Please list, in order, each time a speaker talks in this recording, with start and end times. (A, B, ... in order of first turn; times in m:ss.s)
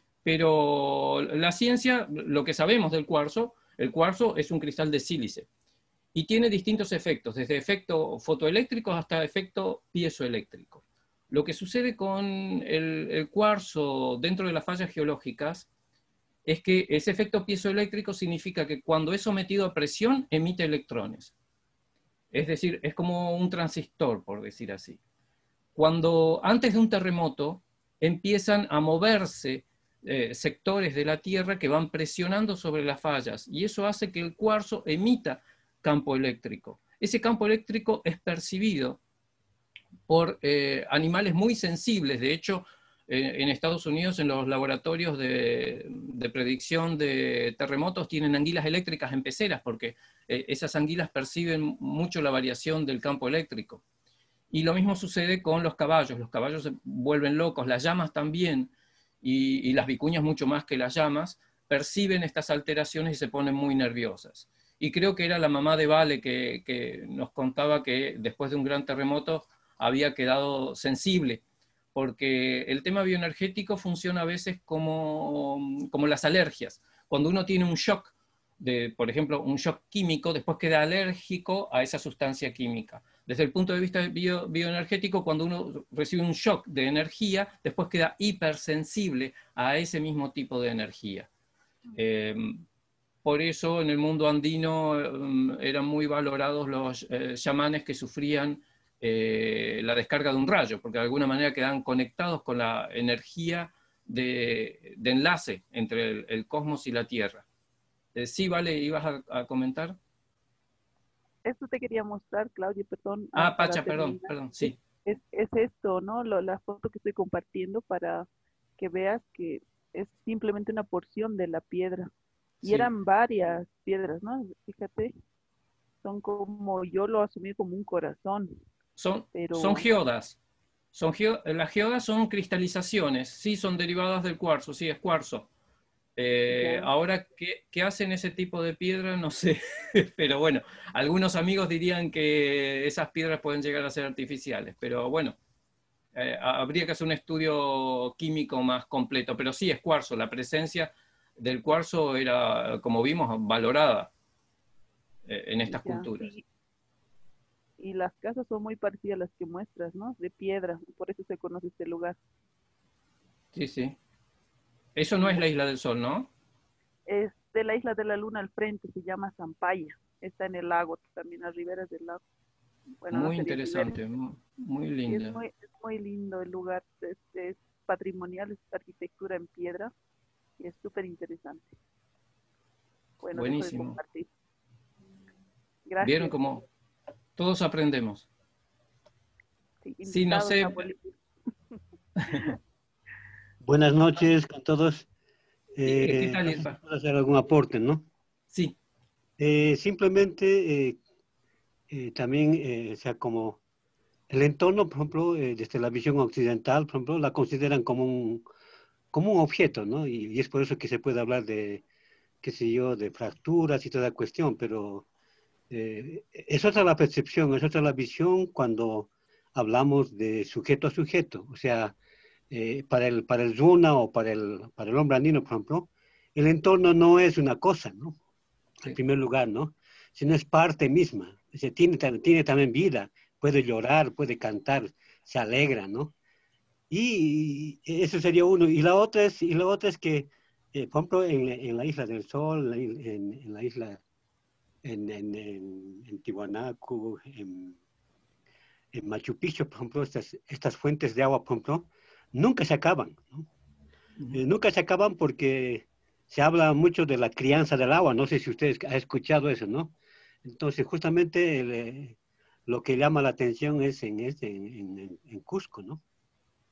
0:00.2-0:05.5 A
0:06.2-0:15.7 A
0:16.5-0:21.3 A
0:22.3-0:25.0 A
0:25.8-0:39.0 A
0:40.1-0:53.8 A
0:54.5-0:58.7 A
0:59.2-1:11.4 A
1:12.0-1:31.3 A
1:32.0-1:32.6 A
1:33.2-1:47.4 A
1:48.2-1:50.0 A
1:51.4-1:58.3 B
1:53.4-1:54.8 A
1:58.8-2:02.1 B
2:02.6-2:02.9 A
2:02.6-2:05.1 B
2:06.0-2:08.6 B
2:09.0-2:10.4 A
2:09.3-2:09.9 B
2:10.9-2:15.5 A
2:16.2-2:25.4 A
2:16.5-2:16.9 B
2:26.2-2:34.1 A
2:35.3-2:36.3 A
2:35.7-2:36.4 B
2:37.8-2:42.2 B
2:43.5-2:44.0 A
2:45.0-2:46.3 A
2:45.2-2:45.4 B
2:47.1-2:52.2 B
2:53.0-2:54.0 B
2:53.1-2:55.4 A
2:55.1-2:59.9 B
3:00.6-3:01.7 B
3:03.2-3:04.3 B
3:03.3-3:04.0 A
3:05.8-3:06.4 B
3:06.0-3:06.6 A
3:07.4-3:08.3 A
3:09.8-3:11.2 B
3:10.1-3:10.9 A
3:12.2-3:12.5 A
3:12.3-3:12.6 B
3:13.6-3:15.1 C
3:15.8-3:18.1 C
3:15.8-3:16.8 A
3:19.4-3:21.0 C
3:21.9-3:23.6 C
3:24.3-3:28.4 C
3:29.1-3:31.8 C
3:32.4-3:35.1 C
3:35.7-3:42.0 C
3:42.5-3:48.2 C
3:48.9-3:56.1 C
3:56.9-4:04.0 C
4:04.8-4:07.8 C
4:08.9-4:13.5 C
4:14.3-4:19.9 C
4:20.4-4:26.0 C